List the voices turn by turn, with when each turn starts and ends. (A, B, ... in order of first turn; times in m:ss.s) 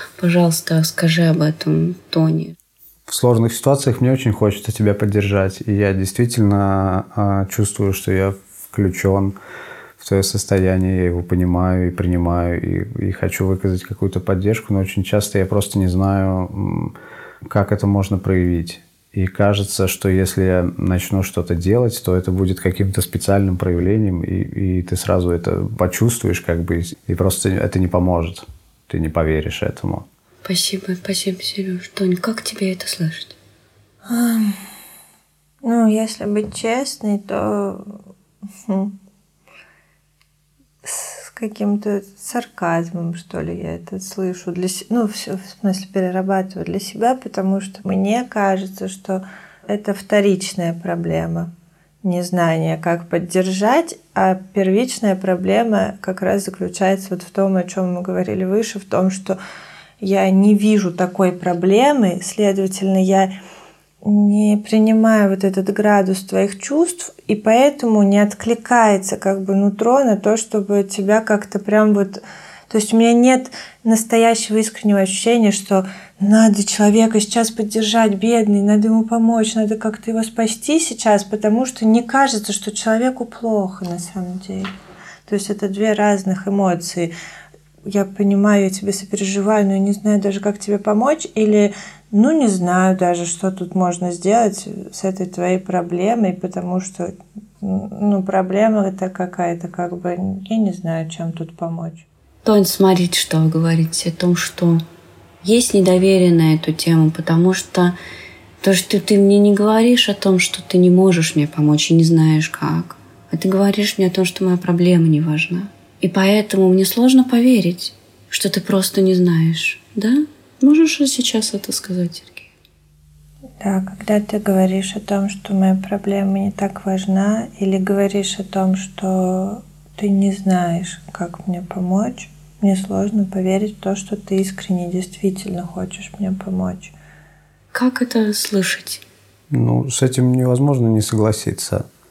0:00.2-0:02.5 A
0:03.1-0:09.3 B
0:10.0-0:16.9 B
0:17.4-0:30.0 B
0:30.4-0:33.4 A
0:34.0-0:34.6 C
0:35.6-0:37.9 C
0:38.7-0:38.9 C
0:40.8-0:51.5 C
0:52.0-0:59.4 C
1:00.0-1:03.3 C
1:04.0-1:24.7 C
1:25.3-1:27.1 C
1:27.9-1:42.0 C
1:42.4-1:44.8 A
1:45.4-1:48.0 A
1:48.6-2:02.5 A
2:03.6-2:16.9 C
2:17.7-2:19.0 A
2:19.5-2:21.8 B